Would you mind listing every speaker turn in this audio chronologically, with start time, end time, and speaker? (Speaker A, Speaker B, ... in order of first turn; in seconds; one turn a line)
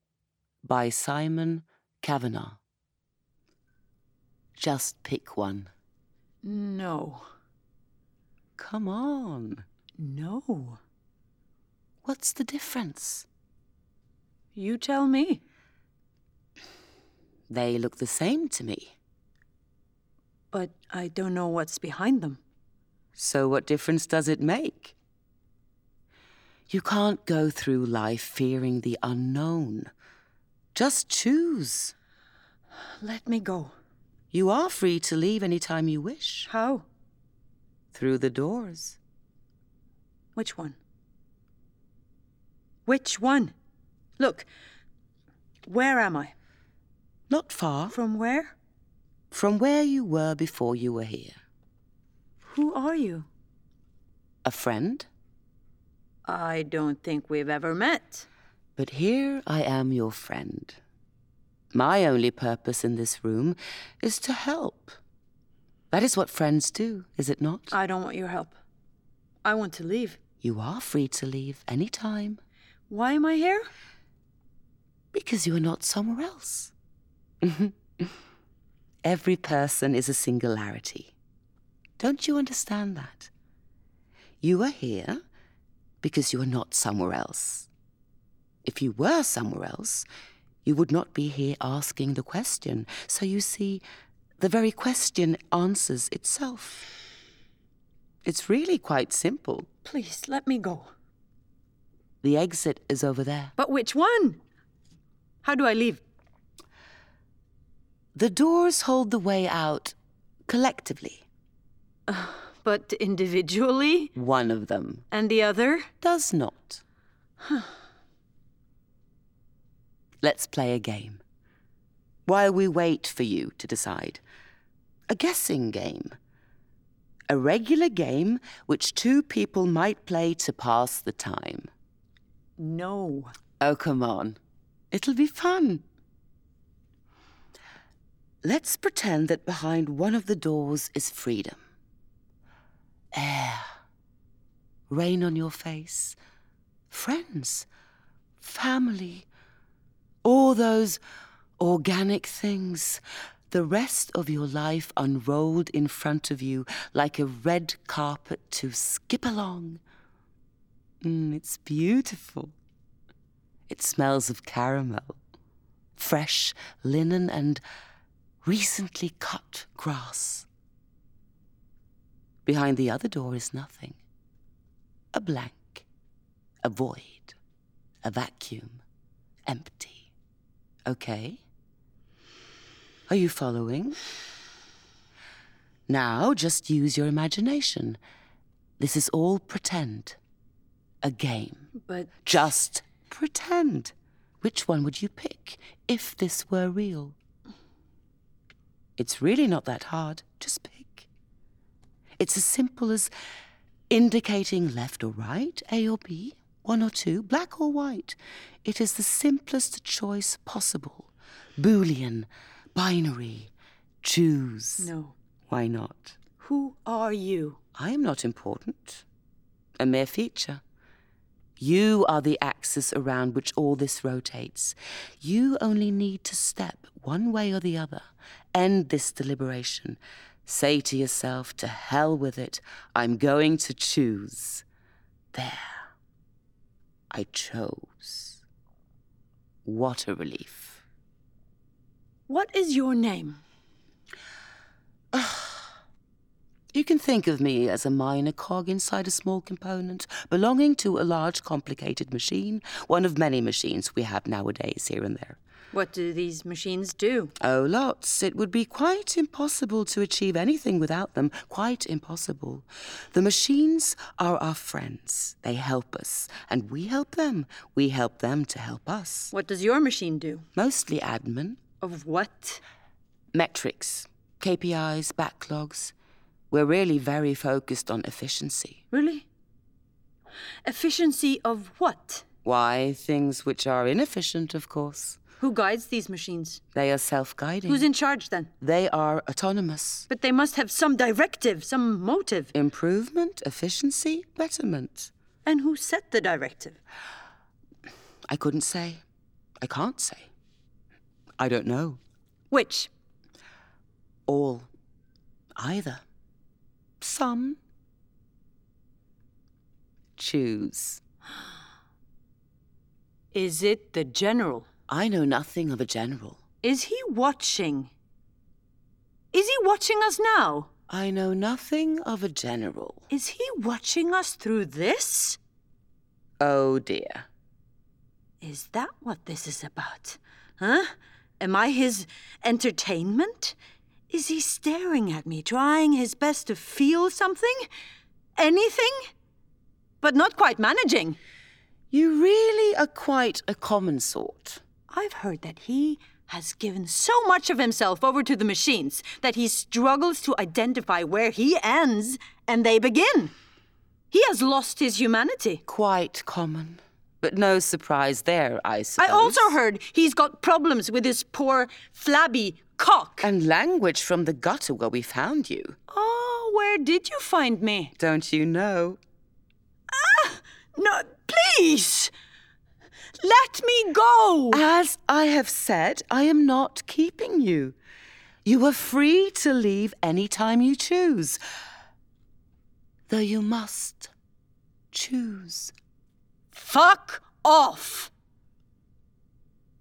Speaker A: 0.6-2.6
Speaker A: 4.6-5.7
Speaker B: 6.4-7.3
Speaker A: 8.6-9.6
Speaker B: 10.0-10.8
Speaker A: 12.0-13.3
Speaker B: 14.5-15.4
Speaker A: 17.5-18.9
Speaker B: 20.5-22.4
Speaker A: 23.1-24.9
Speaker A: 26.7-29.9
Speaker A: 30.7-31.9
Speaker B: 33.0-33.7
Speaker A: 34.3-36.5
Speaker B: 36.5-36.9
Speaker A: 37.9-39.0
Speaker B: 40.4-40.8
Speaker B: 42.9-43.5
Speaker B: 44.2-44.5
Speaker B: 45.7-46.3
Speaker A: 47.3-48.0
Speaker B: 47.9-48.5
Speaker A: 49.3-51.4
Speaker B: 52.5-53.3
Speaker A: 54.5-55.1
Speaker B: 56.2-58.2
Speaker A: 58.8-60.8
Speaker A: 61.7-65.0
Speaker A: 65.9-67.7
Speaker B: 67.7-68.5
Speaker B: 69.4-70.2
Speaker A: 70.4-72.4
Speaker B: 72.9-73.7
Speaker A: 75.1-76.7
Speaker A: 77.4-78.1
Speaker A: 79.0-81.1
Speaker A: 82.0-83.3
Speaker A: 84.4-85.2
Speaker A: 86.0-87.7
Speaker A: 88.6-90.0
Speaker A: 90.6-93.8
Speaker A: 94.4-96.9
Speaker A: 98.2-99.7
Speaker B: 99.8-100.9
Speaker A: 102.2-103.5
Speaker B: 103.6-104.4
Speaker B: 105.4-106.0
Speaker A: 108.1-110.0
Speaker A: 110.5-111.2
Speaker B: 112.1-114.1
Speaker A: 114.1-115.0
Speaker B: 115.1-115.9
Speaker A: 116.0-116.8
Speaker B: 117.4-117.7
Speaker A: 120.2-121.2
Speaker A: 122.3-124.2
Speaker A: 125.1-126.2
Speaker A: 127.3-131.7
Speaker B: 132.6-133.3
Speaker A: 133.6-134.4
Speaker A: 134.9-135.8
Speaker A: 138.4-141.6
Speaker A: 143.1-143.7
Speaker A: 144.9-146.2
Speaker A: 146.9-147.7
Speaker A: 148.4-149.3
Speaker A: 150.2-151.0
Speaker A: 151.6-159.8
Speaker A: 161.0-162.5
Speaker A: 163.7-165.2
Speaker A: 166.0-167.6
Speaker A: 168.4-170.5
Speaker A: 172.5-174.0
Speaker A: 175.1-175.8
Speaker A: 176.6-177.4
Speaker A: 178.0-178.8
Speaker A: 179.5-180.1
Speaker A: 180.9-181.4
Speaker A: 183.1-184.0
Speaker A: 185.9-188.0
Speaker A: 188.8-190.2
Speaker A: 191.0-191.7
Speaker B: 191.8-192.1
Speaker A: 192.2-197.2
Speaker A: 199.0-201.1
Speaker A: 202.2-203.1
Speaker A: 203.9-213.5
Speaker A: 214.0-214.9
Speaker B: 214.8-215.2
Speaker A: 215.5-216.2
Speaker B: 216.4-217.6
Speaker A: 217.8-219.0
Speaker A: 219.8-220.6
Speaker A: 221.6-234.7
Speaker A: 235.3-235.8
Speaker A: 237.1-238.4
Speaker A: 239.7-240.8
Speaker B: 242.3-243.4
Speaker A: 245.1-245.6
Speaker A: 246.7-255.4
Speaker B: 255.7-257.3
Speaker A: 257.4-269.3
Speaker B: 269.3-270.5
Speaker A: 270.6-271.6
Speaker B: 271.8-272.6
Speaker A: 273.3-275.9
Speaker A: 276.5-278.8
Speaker B: 278.9-279.2
Speaker B: 280.6-282.3
Speaker A: 282.4-285.2
Speaker B: 285.4-286.6
Speaker A: 286.8-287.9
Speaker B: 287.7-288.5
Speaker A: 288.6-290.1
Speaker B: 290.1-292.5
Speaker A: 292.5-295.1
Speaker B: 295.4-296.8
Speaker A: 298.3-299.0
Speaker A: 299.6-300.3
Speaker A: 301.4-302.0
Speaker B: 302.5-302.9
Speaker A: 304.3-304.7
Speaker A: 305.6-306.0
Speaker A: 307.0-307.6
Speaker A: 310.2-311.0
Speaker B: 313.3-314.7
Speaker A: 314.9-316.4
Speaker B: 316.6-317.9
Speaker B: 319.3-320.7
Speaker A: 320.9-323.1
Speaker B: 323.1-325.4
Speaker A: 326.4-327.3
Speaker B: 328.4-333.6
Speaker B: 334.1-337.7
Speaker B: 338.4-339.0
Speaker B: 340.0-341.2
Speaker A: 341.9-344.6
Speaker B: 344.9-353.3
Speaker B: 354.1-355.6
Speaker A: 355.7-359.5
Speaker B: 359.0-363.3
Speaker A: 363.2-365.8
Speaker B: 365.9-367.9
Speaker A: 368.0-369.0
Speaker B: 369.9-372.1
Speaker B: 373.2-374.6
Speaker A: 374.5-377.8
Speaker A: 378.4-381.4
Speaker A: 383.1-384.1
Speaker A: 384.9-385.7
Speaker B: 386.5-388.1